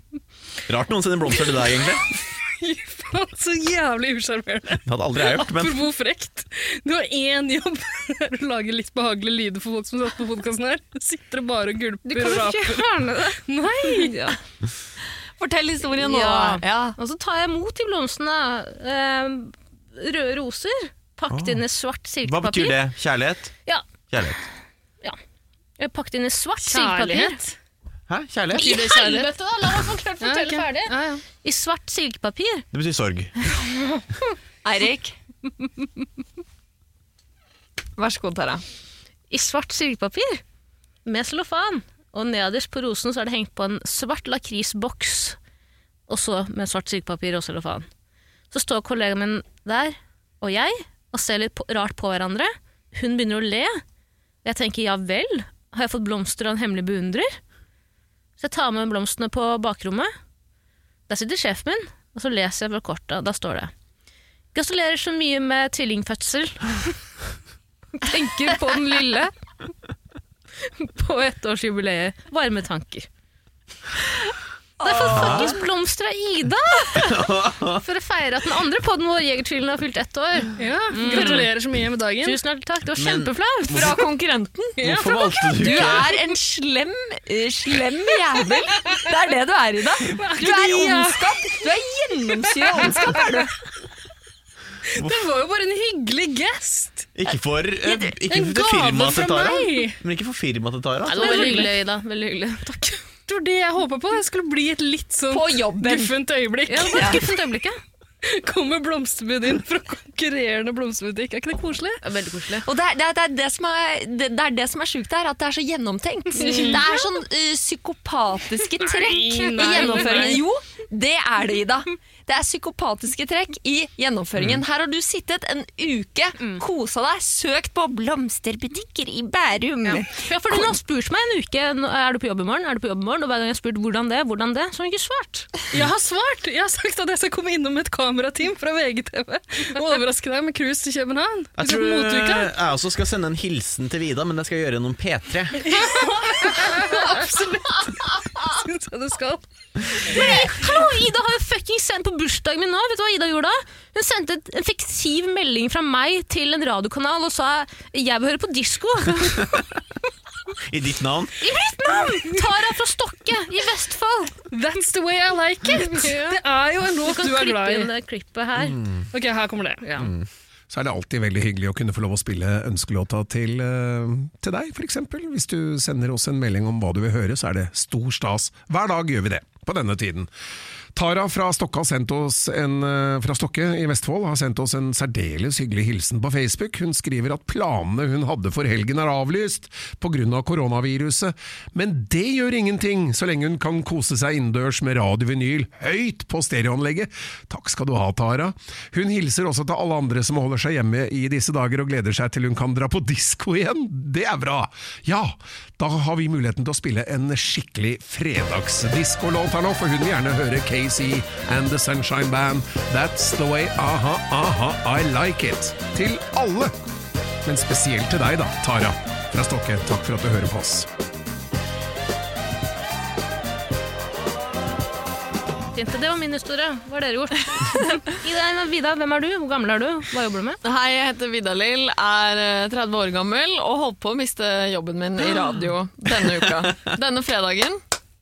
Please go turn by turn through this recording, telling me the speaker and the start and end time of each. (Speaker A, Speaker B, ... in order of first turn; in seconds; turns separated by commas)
Speaker A: 0.7-2.1, Speaker B: 2.5-12.9, Speaker A: 4.8-5.8, Speaker C: 12.0-14.4, Speaker B: 13.4-14.2, Speaker D: 15.4-16.9, Speaker C: 16.0-22.8, Speaker A: 21.3-21.6, Speaker A: 22.2-23.6, Speaker A: 24.1-24.4, Speaker C: 25.8-27.4, Speaker B: 26.6-27.5, Speaker A: 28.1-28.7, Speaker B: 28.5-29.3, Speaker C: 28.5-32.6, Speaker B: 30.2-31.2, Speaker A: 32.7-33.3, Speaker C: 33.5-34.0, Speaker D: 34.6-35.1, Speaker D: 38.0-38.6, Speaker C: 39.3-40.4, Speaker C: 41.0-45.4, Speaker C: 46.1-47.9, Speaker C: 48.5-53.8, Speaker C: 54.4-57.4, Speaker C: 58.4-60.1, Speaker C: 61.1-63.7, Speaker C: 64.5-66.9, Speaker C: 68.0-69.3, Speaker C: 70.7-73.1, Speaker D: 74.8-75.6, Speaker C: 74.8-77.2, Speaker A: 75.1-75.5, Speaker A: 76.9-77.8, Speaker C: 77.8-81.5, Speaker B: 80.6-82.4, Speaker C: 82.2-83.9, Speaker A: 83.0-84.0, Speaker D: 83.7-84.8, Speaker A: 84.8-86.1, Speaker B: 84.8-86.0, Speaker D: 85.6-93.5, Speaker B: 90.1-91.4, Speaker B: 92.7-93.2, Speaker B: 94.9-97.1, Speaker A: 95.0-95.2, Speaker A: 97.2-101.6, Speaker D: 97.8-98.1, Speaker B: 98.3-100.0, Speaker C: 101.0-103.0, Speaker B: 101.1-101.7, Speaker B: 103.3-107.3, Speaker D: 105.3-106.1, Speaker C: 106.7-107.8, Speaker D: 106.8-107.2, Speaker B: 108.2-112.0, Speaker C: 112.0-112.7, Speaker D: 112.6-130.7, Speaker C: 116.3-117.0, Speaker B: 116.4-116.8, Speaker B: 118.8-120.4, Speaker C: 119.6-120.3, Speaker C: 129.8-135.5, Speaker B: 135.7-142.5, Speaker A: 141.6-145.6, Speaker B: 145.6-149.4, Speaker B: 149.9-150.6, Speaker C: 150.0-159.6, Speaker A: 160.7-161.4, Speaker C: 161.4-164.3, Speaker B: 164.5-167.9, Speaker C: 165.7-166.4, Speaker C: 167.0-168.8, Speaker A: 168.7-169.1, Speaker B: 169.1-170.1, Speaker A: 170.0-170.2, Speaker E: 170.7-180.3, Speaker E: 180.9-216.7, Speaker E: 217.4-220.9, Speaker C: 225.7-230.6, Speaker D: 230.6-237.8